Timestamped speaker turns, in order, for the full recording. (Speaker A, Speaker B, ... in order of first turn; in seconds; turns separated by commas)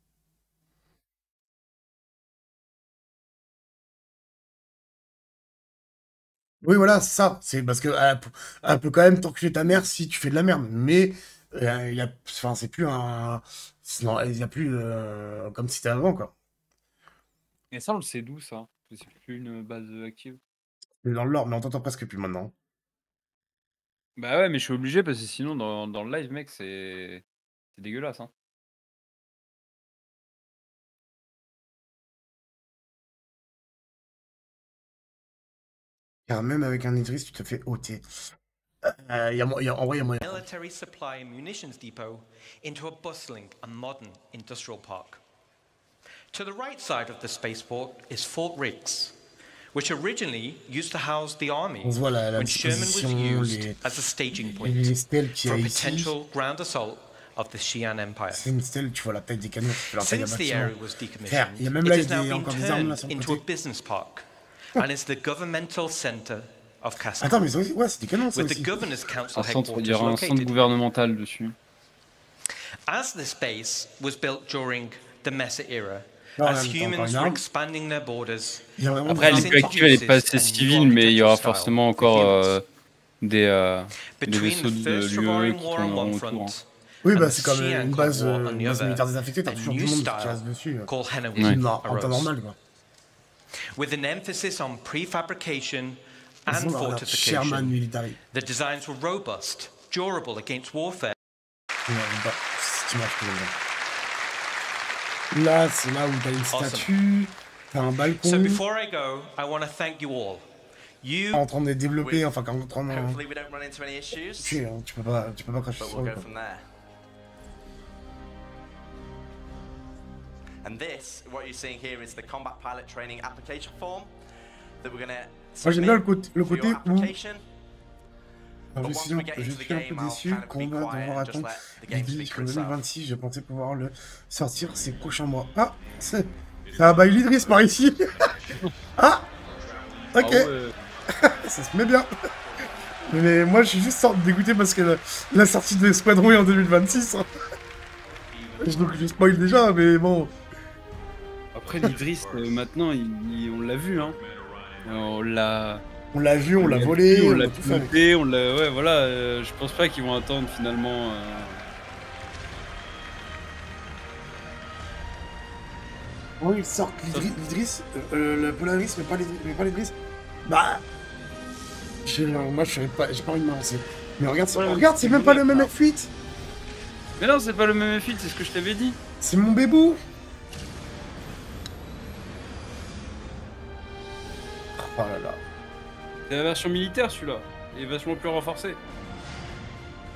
Speaker A: 6.6-16.3, Speaker B: 17.7-20.4, Speaker A: 21.0-22.5, Speaker B: 24.2-27.2, Speaker B: 27.7-28.3, Speaker A: 36.3-38.3, Speaker A: 38.8-40.4, Speaker C: 40.2-45.2, Speaker C: 46.3-49.1, Speaker C: 49.7-54.9, Speaker A: 51.8-53.8, Speaker A: 54.4-56.1, Speaker C: 55.4-58.4, Speaker A: 58.3-63.4, Speaker C: 59.8-67.5, Speaker A: 67.2-68.8, Speaker C: 68.3-70.7, Speaker B: 69.3-71.5, Speaker C: 72.9-82.2, Speaker A: 76.4-77.4, Speaker A: 78.8-80.1, Speaker B: 79.1-82.6, Speaker A: 82.0-82.4, Speaker B: 83.2-86.6, Speaker C: 84.2-92.3, Speaker A: 87.0-92.6, Speaker C: 93.8-97.8, Speaker A: 96.5-98.2, Speaker C: 98.3-101.2, Speaker A: 101.9-103.5, Speaker A: 105.3-108.6, Speaker D: 106.5-106.9, Speaker C: 108.2-110.5, Speaker C: 111.0-111.4, Speaker A: 111.3-113.2, Speaker D: 112.0-112.3, Speaker D: 112.8-114.6, Speaker A: 114.3-116.2, Speaker D: 115.8-116.6, Speaker D: 120.6-124.1, Speaker D: 124.8-127.4, Speaker A: 125.6-127.1, Speaker A: 128.7-138.3, Speaker D: 128.8-132.8, Speaker D: 136.6-138.7, Speaker A: 139.0-139.2, Speaker D: 139.4-140.7, Speaker A: 140.1-140.5, Speaker A: 141.1-142.1, Speaker D: 142.4-142.8, Speaker A: 143.1-147.3, Speaker D: 148.2-149.6, Speaker A: 148.6-150.3, Speaker B: 151.6-154.2, Speaker D: 151.6-152.7, Speaker D: 153.9-155.1, Speaker B: 154.8-155.8, Speaker A: 156.1-157.9, Speaker B: 156.6-161.6, Speaker A: 166.4-169.9, Speaker A: 170.4-170.8, Speaker A: 172.0-176.1, Speaker B: 174.6-175.7, Speaker B: 177.2-179.0, Speaker A: 179.2-180.0, Speaker A: 184.8-185.4, Speaker B: 186.3-188.8